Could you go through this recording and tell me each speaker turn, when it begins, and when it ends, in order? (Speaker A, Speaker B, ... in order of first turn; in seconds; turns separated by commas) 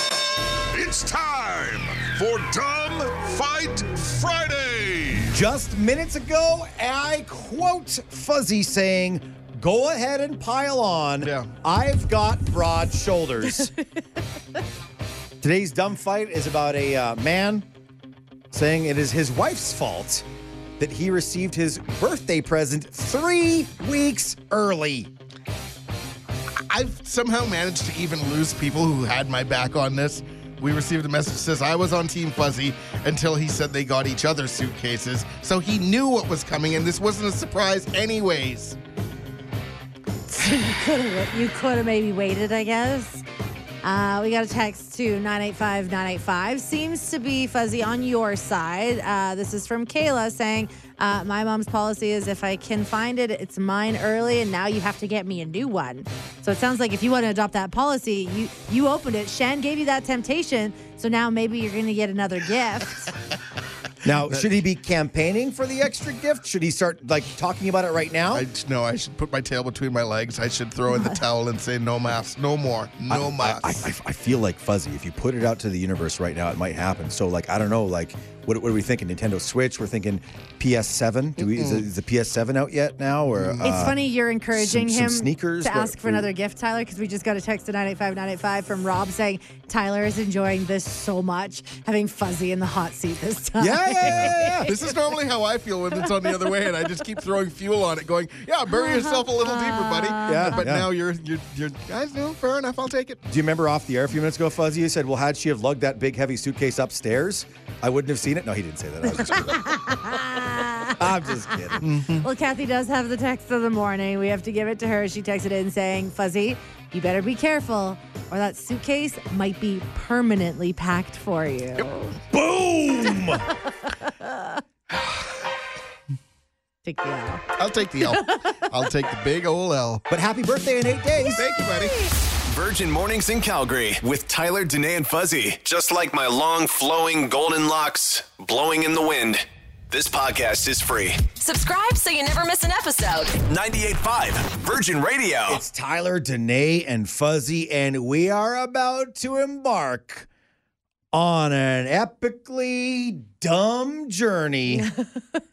Speaker A: 0.7-5.4, Speaker B: 5.3-13.7, Speaker C: 11.2-11.5, Speaker B: 15.4-17.7, Speaker B: 18.5-20.2, Speaker B: 20.8-25.1, Speaker C: 26.7-38.8, Speaker D: 40.3-43.2, Speaker D: 43.8-63.1, Speaker B: 64.0-68.5, Speaker C: 68.3-73.8, Speaker D: 70.9-71.2, Speaker B: 73.1-86.3, Speaker C: 81.4-81.9, Speaker C: 83.3-83.9, Speaker D: 83.6-94.8, Speaker B: 93.6-94.7, Speaker C: 94.1-103.2, Speaker D: 98.7-100.6, Speaker B: 100.2-100.9, Speaker B: 103.3-110.0, Speaker D: 109.2-111.0, Speaker B: 111.0-111.8, Speaker D: 111.7-122.2, Speaker C: 111.8-112.3, Speaker B: 122.3-123.5, Speaker D: 124.0-124.6, Speaker D: 126.8-127.5, Speaker C: 127.6-130.1, Speaker D: 128.0-128.6, Speaker B: 130.1-131.4, Speaker D: 131.2-132.1, Speaker C: 131.3-132.0, Speaker E: 132.4-141.3, Speaker F: 141.4-143.4, Speaker E: 143.5-145.6, Speaker B: 145.5-150.3, Speaker B: 151.1-154.9